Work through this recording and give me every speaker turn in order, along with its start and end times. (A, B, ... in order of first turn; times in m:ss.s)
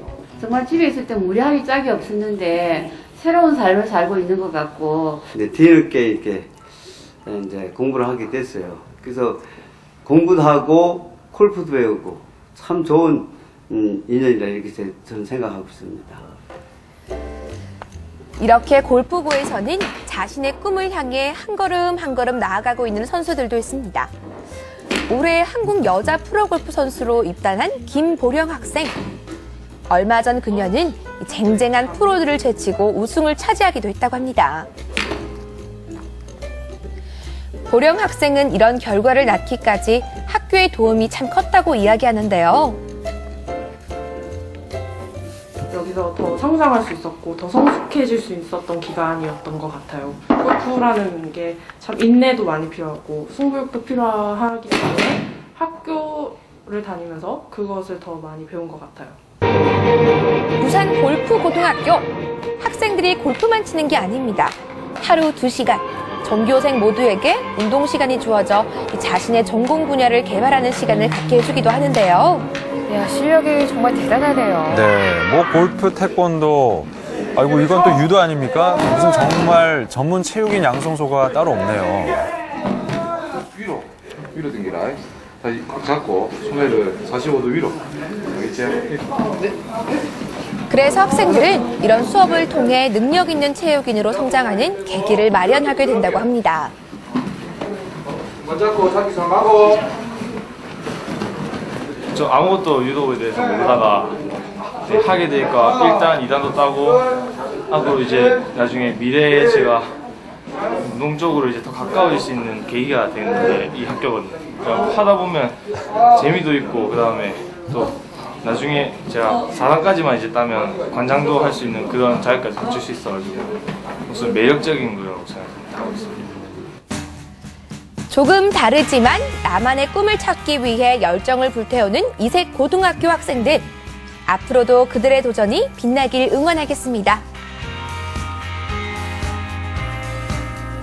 0:00.4-0:05.3 A
0:05.3-0:06.5 B
0:07.2-0:09.5 B
0:10.0-0:16.3 B
0:18.4-0:24.1 C
0:25.1-0:29.0 C
0:29.9-0:34.7 C
0:37.7-0:42.8 C
0:45.7-0:59.2 D
1:00.6-1:12.5 C
1:12.9-1:14.8 E
1:14.7-1:22.3 F
1:23.5-1:28.9 G
1:30.7-1:36.7 C
1:42.1-1:44.2 H
1:44.8-1:47.0 H
1:47.7-1:49.9 H
1:50.8-1:55.6 H
1:56.1-2:03.5 H
2:04.1-2:06.4 H
2:08.1-2:13.7 C
2:14.3-2:17.2 C